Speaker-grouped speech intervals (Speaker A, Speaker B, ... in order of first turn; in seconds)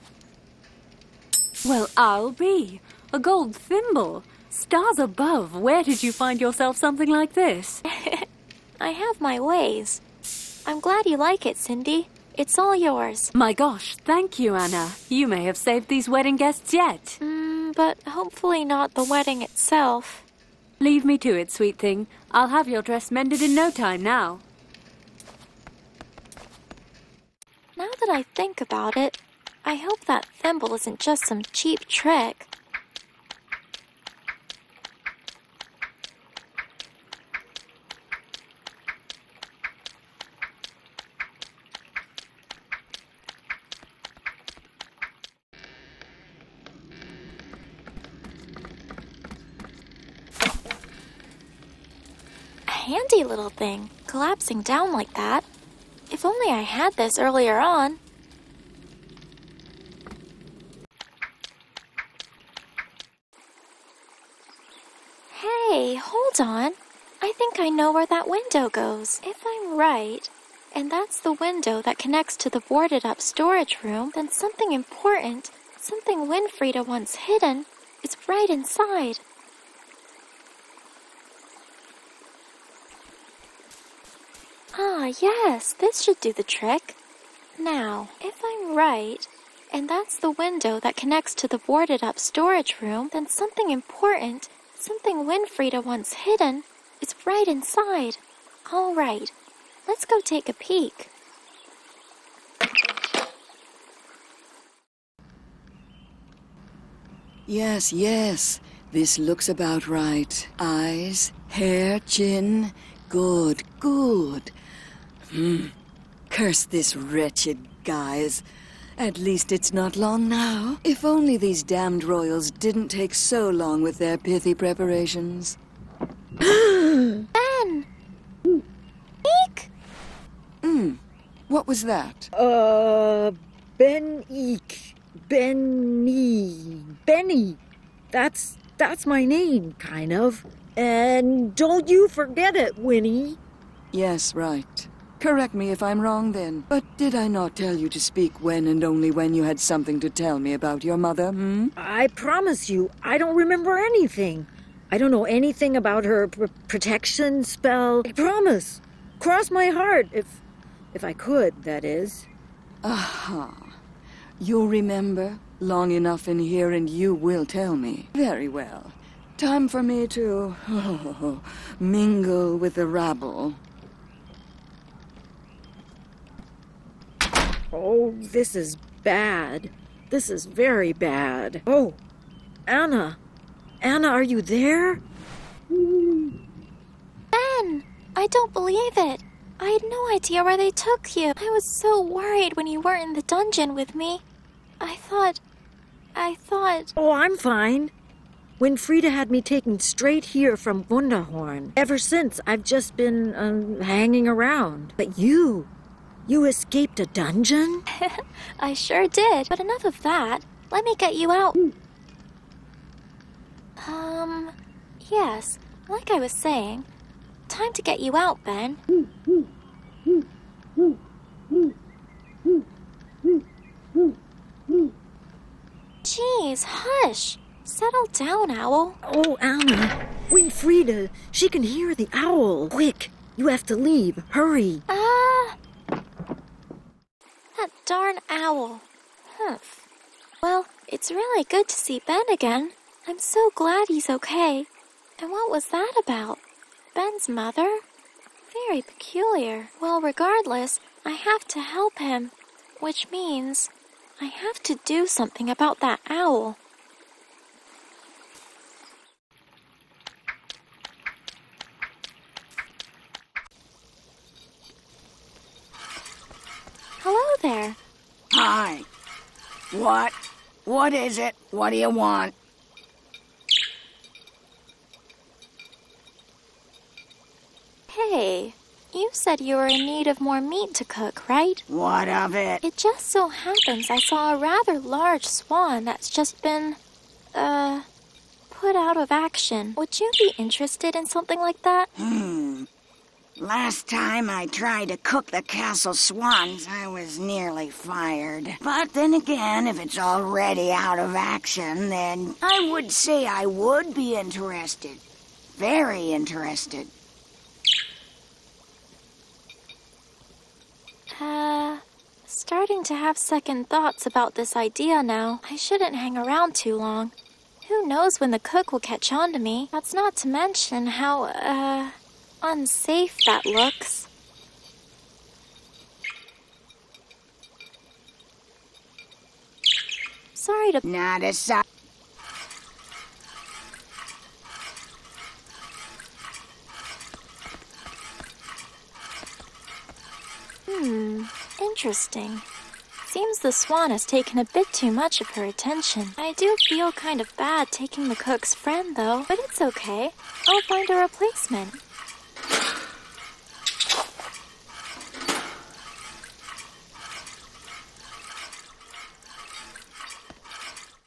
Speaker A: 1.6-7.8, 13.3-17.2, 20.8-24.4
Speaker B: 7.9-8.3, 8.8-10.0, 10.7-13.3, 17.2-20.2, 27.8-32.5, 52.7-55.5, 56.1-58.0, 65.3-79.2, 84.7-87.0, 87.6-99.3, 99.9-101.1, 127.4-127.9, 129.2-129.7, 187.3-194.2, 194.8-195.4, 196.2-196.9, 208.0-211.6, 213.8-216.9, 217.5-218.8, 226.0-229.0, 234.9-235.6, 237.6-239.8, 240.4-246.4, 246.9-247.8, 248.5-256.6, 267.0-267.8, 277.9-281.7, 282.6-286.8, 287.3-287.9, 288.5-291.9, 311.1-317.1, 317.6-324.1, 330.4-330.8, 340.7-342.5, 343.1-351.8
Speaker C: 107.5-114.5, 115.3-115.8, 116.3-118.5, 119.0-125.6, 130.6-132.3, 143.9-151.7, 162.8-163.8, 164.4-173.6
Speaker D: 126.4-127.3, 132.3-137.6, 138.1-143.4, 151.8-160.4, 160.9-162.3, 177.7-182.0, 182.7-183.2, 183.8-185.0, 197.0-197.9, 198.6-205.7, 206.3-207.8, 229.0-234.8
Speaker E: 268.3-268.9, 269.7-272.3, 281.7-282.6, 292.0-292.7, 293.4-305.0, 305.6-306.9, 330.9-331.6